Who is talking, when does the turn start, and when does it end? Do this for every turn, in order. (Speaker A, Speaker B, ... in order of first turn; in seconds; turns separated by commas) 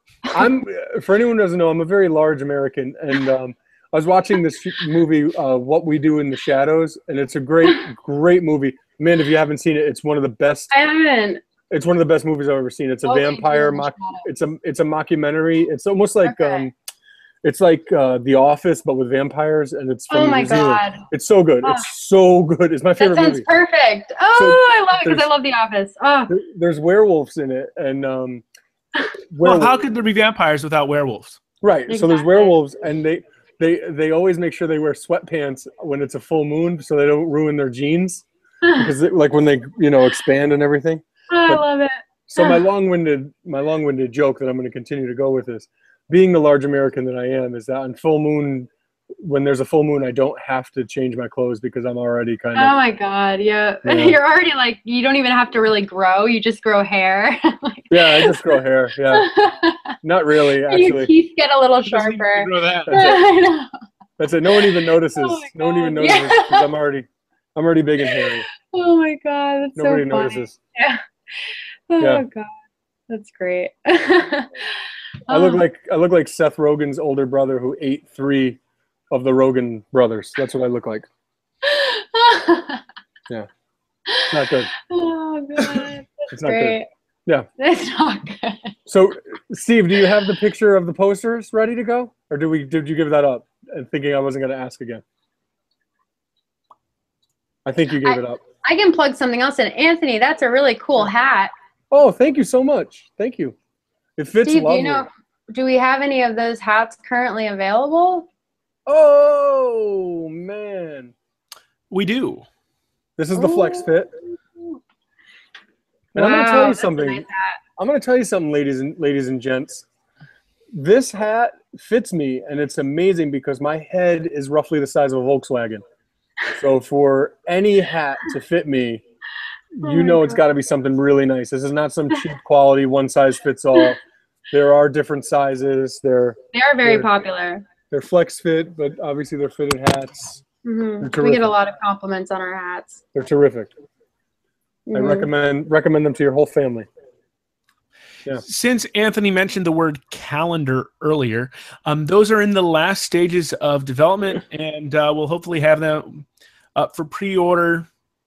Speaker A: 0.3-10.7, Speaker B: 10.7-11.4, Speaker A: 11.7-16.7, Speaker B: 13.0-14.2, Speaker B: 16.2-16.6, Speaker A: 17.4-23.5, Speaker B: 20.1-21.0, Speaker B: 23.0-26.3, Speaker A: 24.3-25.3, Speaker A: 26.3-28.4, Speaker A: 29.3-29.8, Speaker C: 29.4-31.4, Speaker A: 31.6-38.2, Speaker B: 31.9-32.5, Speaker B: 38.6-38.9, Speaker A: 38.8-41.6, Speaker B: 41.3-42.6, Speaker A: 42.3-48.7, Speaker A: 49.2-52.7, Speaker B: 52.5-58.6, Speaker A: 53.9-54.2, Speaker A: 57.9-59.3, Speaker B: 59.1-60.0, Speaker A: 60.0-61.1, Speaker B: 60.7-63.7, Speaker C: 61.9-63.2, Speaker A: 62.9-63.2, Speaker A: 64.2-68.5, Speaker B: 64.6-66.7, Speaker B: 68.1-72.5, Speaker A: 69.8-70.6, Speaker B: 73.1-74.7, Speaker B: 75.3-75.6, Speaker A: 75.3-78.6, Speaker A: 79.1-81.1, Speaker B: 81.6-82.8, Speaker A: 84.3-84.7, Speaker B: 84.9-86.9, Speaker A: 86.3-87.5, Speaker B: 87.6-88.8, Speaker A: 88.9-95.0, Speaker A: 97.7-98.4, Speaker B: 98.0-101.5, Speaker A: 101.9-103.5, Speaker A: 104.2-105.1, Speaker B: 104.5-108.3, Speaker A: 108.9-111.1, Speaker C: 111.9-112.5, Speaker A: 113.2-114.1, Speaker B: 113.4-113.9, Speaker A: 116.1-117.2, Speaker B: 116.2-117.6, Speaker A: 117.8-119.9, Speaker A: 120.7-125.8, Speaker A: 126.5-129.0, Speaker A: 129.8-134.0, Speaker B: 129.8-130.4, Speaker A: 134.5-137.1, Speaker B: 136.5-137.6, Speaker A: 137.9-140.4, Speaker B: 140.7-143.0, Speaker A: 141.0-141.5, Speaker A: 143.2-143.7, Speaker B: 144.9-145.3, Speaker A: 144.9-146.9, Speaker C: 148.4-156.2, Speaker C: 156.8-157.9